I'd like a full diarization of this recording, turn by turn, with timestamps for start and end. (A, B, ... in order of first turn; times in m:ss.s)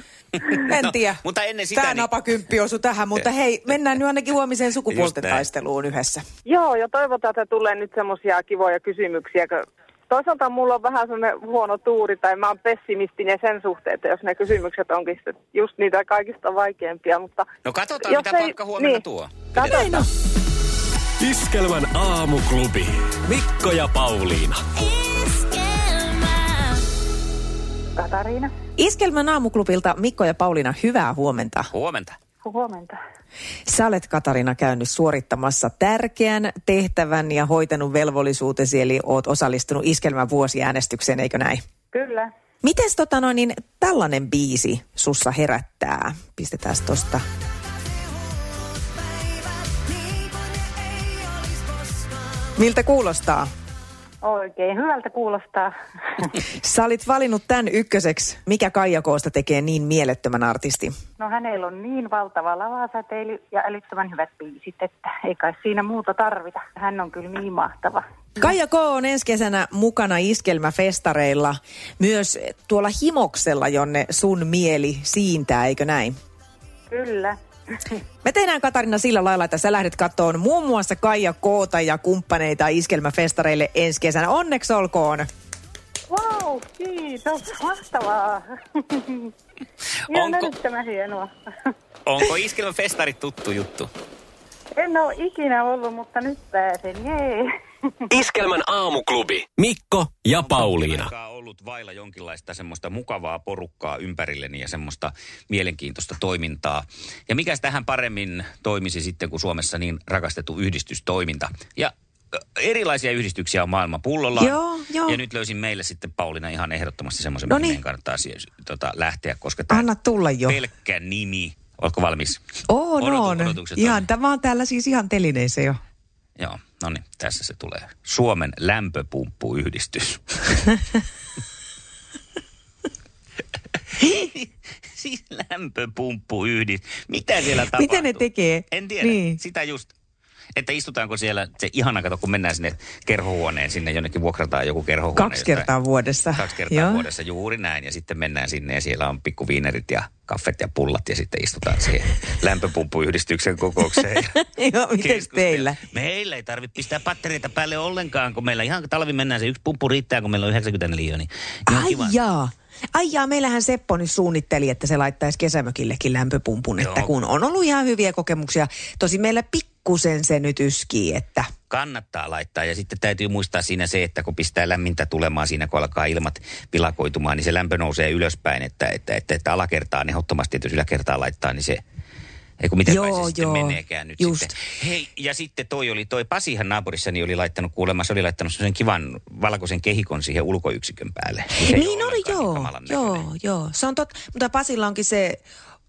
0:00.4-0:02.1 A
0:00.6-0:06.2 B
0:04.9-0:05.4 A
0:06.5-0:17.5 C
0:17.6-0:19.7 A
0:18.0-0:19.0 C
0:19.6-0:20.1 C
0:19.6-0:20.1 B
0:21.2-0:24.6 D
0:28.0-0:28.5 E
0:28.8-0:31.7 B
0:31.7-0:32.2 A
0:32.4-0:33.0 E
0:33.7-0:41.6 B
0:41.9-0:42.3 E
0:42.6-0:47.2 B
0:52.6-0:53.5 B
0:54.2-0:55.7 E
0:56.6-1:00.9 B
1:01.2-1:08.0 E
1:08.4-1:16.2 B
1:16.9-1:17.4 E
1:18.2-1:25.3 B
1:26.1-1:29.3 E
1:30.1-1:31.3 E
1:30.1-1:30.5 A
1:32.1-1:33.9 A
1:34.8-1:37.5 E
1:38.1-1:41.1 D
1:40.4-1:51.9 A
1:52.6-1:59.9 A
1:54.4-1:55.2 B
1:57.5-1:57.8 B
1:59.7-2:00.6 B
2:00.5-2:02.4 A
2:02.7-2:05.8 B
2:03.0-2:04.0 A
2:06.4-2:10.4 A
2:14.0-2:19.9 A
2:17.6-2:19.4 B
2:20.6-2:25.7 A
2:25.2-2:27.0 B
2:26.4-2:34.4 A
2:34.4-2:35.8 B
2:35.0-2:42.2 A
2:41.7-2:51.5 B
2:46.8-2:47.1 A
2:51.7-3:01.8 A
3:02.6-3:13.2 A
3:02.9-3:04.6 B
3:11.6-3:15.4 B